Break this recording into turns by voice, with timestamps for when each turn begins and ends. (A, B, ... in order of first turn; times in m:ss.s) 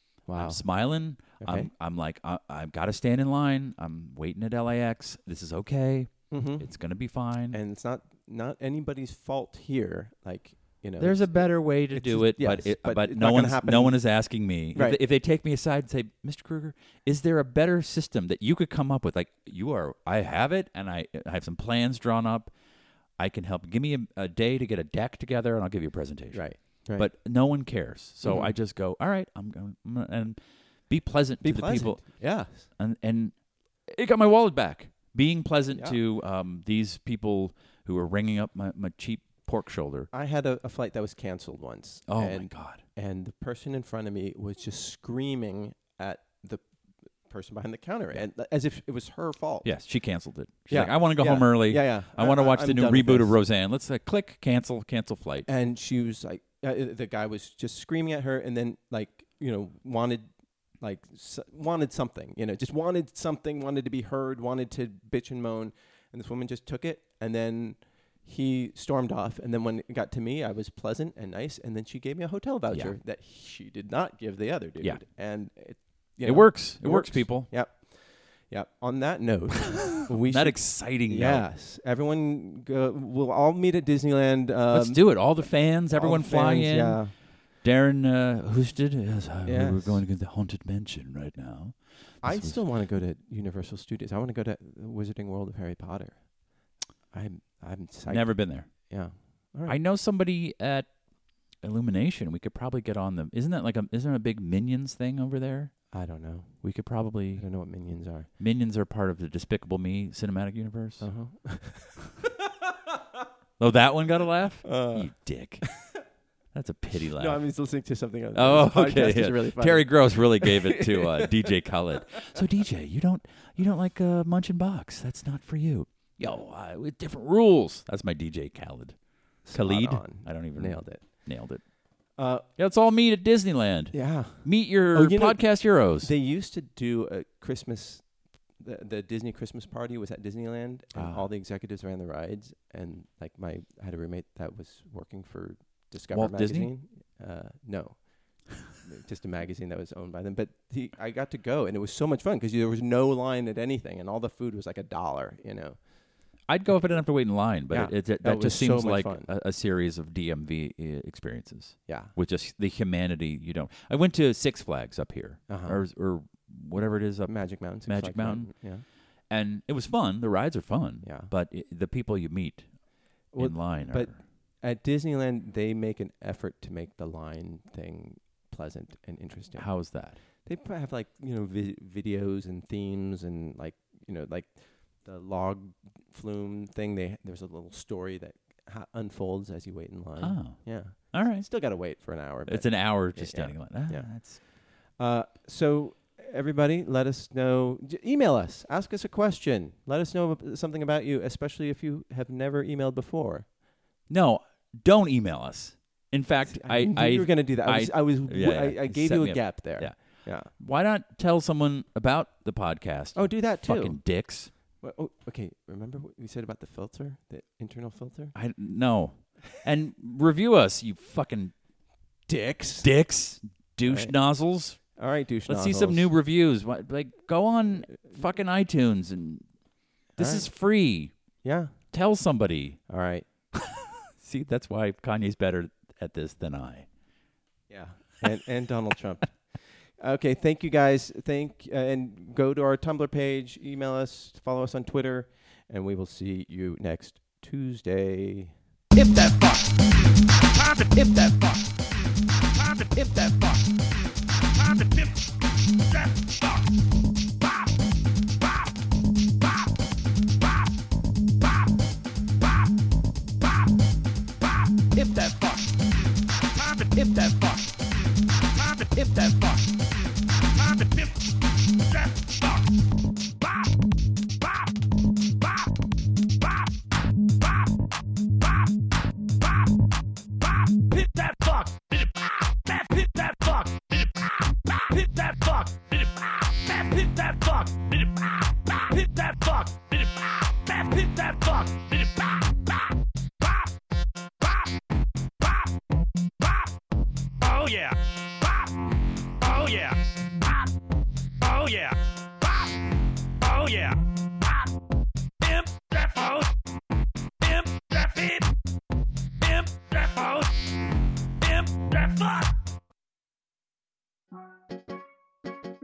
0:00.3-0:00.6 A
0:00.4-0:07.6 B
0:01.4-0:01.7 A
0:06.3-0:06.7 A
0:07.5-0:14.2 A
0:11.0-0:22.5 B
0:14.7-0:15.0 A
0:23.2-0:40.1 B
0:26.3-0:27.1 A
0:28.2-0:28.5 A
0:31.4-0:32.7 A
0:35.7-0:36.0 A
0:40.1-0:46.6 A
0:42.1-0:42.8 B
0:47.2-0:49.7 A
0:49.6-0:55.5 B
0:50.7-0:53.4 A
0:55.5-1:00.2 A
1:00.8-1:27.1 A
1:16.2-1:17.5 B
1:19.8-1:21.5 B
1:24.7-1:32.6 B
1:29.4-1:30.0 A
1:32.2-1:39.8 A
1:38.1-1:38.9 B
1:39.7-1:41.0 B
1:41.5-1:46.0 B
1:45.9-1:46.6 A
1:46.6-1:47.5 B
1:47.3-1:48.3 A
1:48.4-1:51.1 B
1:51.0-1:52.1 A
1:53.6-1:55.8 B
1:54.6-1:56.0 A
1:56.5-1:57.4 B
1:57.2-2:01.5 A
1:58.3-2:11.6 B
2:09.4-2:11.3 A
2:12.2-2:12.5 A
2:12.6-2:16.1 B
2:13.9-2:35.8 A
2:20.9-2:21.3 B
2:26.1-2:26.7 B
2:36.5-2:48.6 B
2:37.7-2:39.3 A
2:41.9-2:42.1 A
2:45.5-2:45.8 A
2:47.3-2:48.8 A
2:49.3-2:52.7 B
2:51.0-2:51.3 A
2:53.3-3:23.5 A
2:53.4-2:54.2 B
2:59.6-3:00.2 B
3:10.2-3:11.9 B
3:12.5-3:14.4 B
3:24.1-3:34.5 B
3:26.5-3:30.5 A
3:33.1-3:34.0 A
3:34.7-3:38.3 A
3:38.3-3:41.5 B
3:42.3-3:42.9 A
3:42.8-3:49.5 B
3:43.8-3:44.1 A
3:44.8-3:46.1 A
3:50.2-3:51.1 B
3:50.2-3:50.5 A
3:51.4-3:51.8 A
3:51.9-3:52.8 B
3:52.9-3:53.3 A
3:53.6-3:56.9 B
3:57.7-4:08.5 A
4:09.0-4:11.9 C
4:12.5-4:13.8 C
4:14.6-4:15.2 C
4:15.9-4:16.7 C
4:24.6-4:32.7 C
4:33.5-4:33.8 C
4:40.5-4:52.8 C
4:53.4-4:53.7 C
4:54.4-4:54.7 C
4:55.4-4:55.7 C
4:56.4-4:56.7 C
4:57.4-4:58.8 C
4:59.4-5:00.7 C
5:01.4-5:02.8 C
5:03.4-5:04.7 C
5:05.4-5:06.6 C
5:07.4-5:08.6 C
5:09.4-5:10.7 C
5:11.4-5:12.6 C